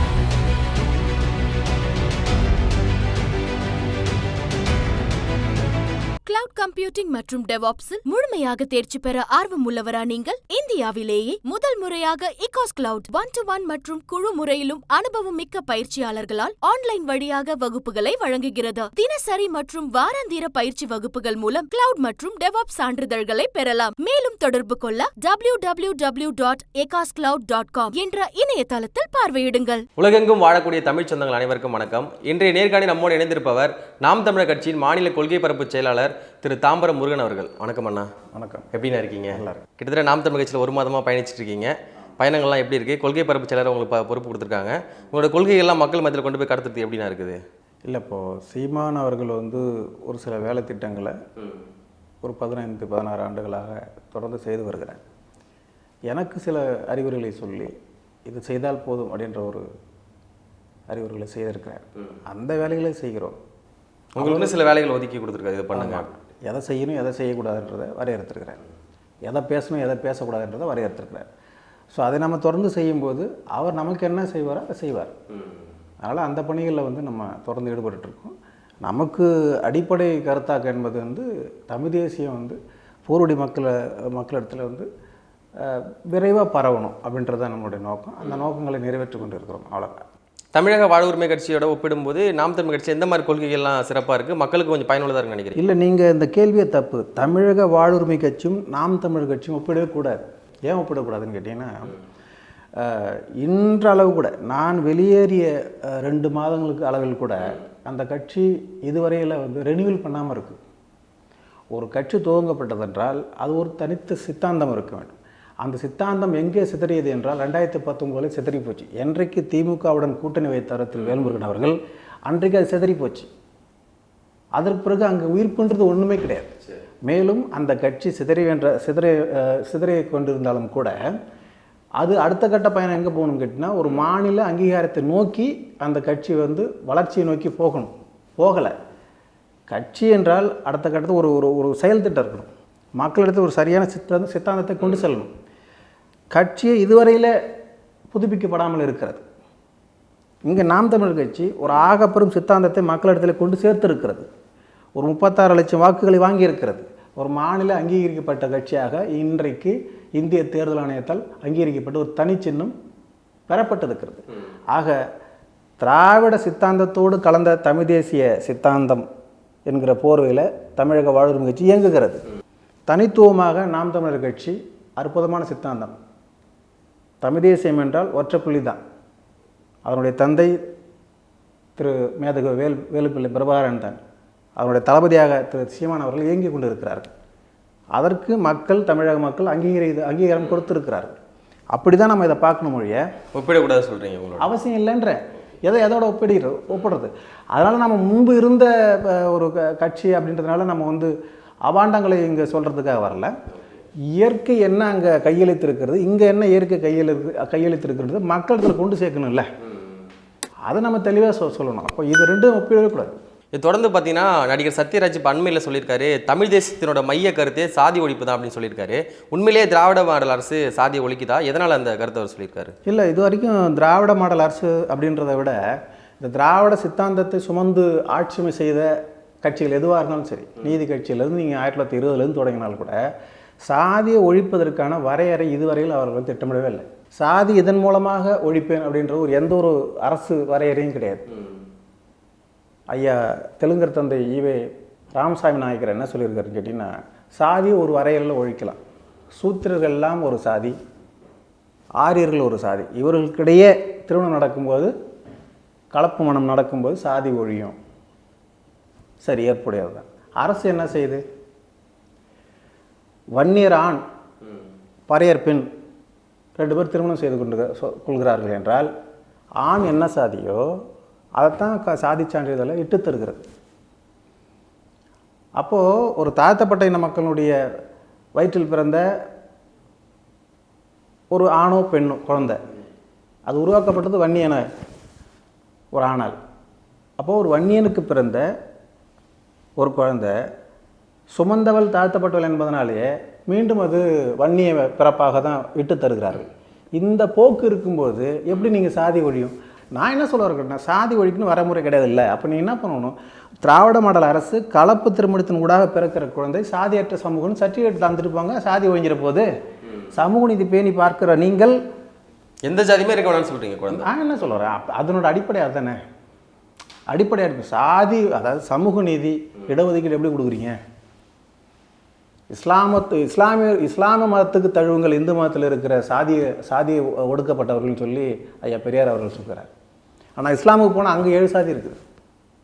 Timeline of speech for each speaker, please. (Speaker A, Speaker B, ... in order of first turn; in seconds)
Speaker A: 6.2-29.9
Speaker B: 30.0-38.1, 38.7-47.4, 64.2-66.1, 90.5-95.6, 193.3-194.5, 213.5-222.7, 312.6-314.1
Speaker C: 38.3-38.7, 39.3-39.6, 47.9-51.2, 52.2-55.0, 56.1-57.7, 58.2-59.6, 60.9-63.4, 64.2-64.5, 65.7-68.6, 69.2-71.3, 71.9-75.1, 76.0-84.9, 85.6-90.0, 95.5-101.9, 102.8-110.6, 111.7-123.3, 124.5-131.0, 132.0-138.8, 139.7-145.3, 146.3-147.3, 148.1-149.2, 150.4-154.3, 154.9-162.7, 163.5-165.0, 165.8-169.1, 169.7-172.2, 172.9-175.9, 177.2-178.8, 179.8-180.6, 181.8-184.0, 184.6-187.1, 187.9-191.1, 191.7-193.1, 194.4-201.1, 201.6-203.3, 204.1-209.5, 210.7-213.1, 222.8-225.6, 226.2-228.9, 229.4-233.0, 233.6-241.2, 242.9-248.8, 249.3-250.8, 252.0-254.9, 255.9-257.8, 259.2-261.2, 263.4-264.0, 265.1-265.7, 266.6-268.9, 269.6-270.6, 271.4-273.4, 275.6-277.6, 278.4-279.0, 281.3-282.6, 283.5-284.6, 285.9-286.4, 287.2-288.4, 289.8-290.3, 291.3-309.5, 310.1-311.8, 313.9-316.0, 317.1-320.8, 322.5-329.7, 330.4-332.0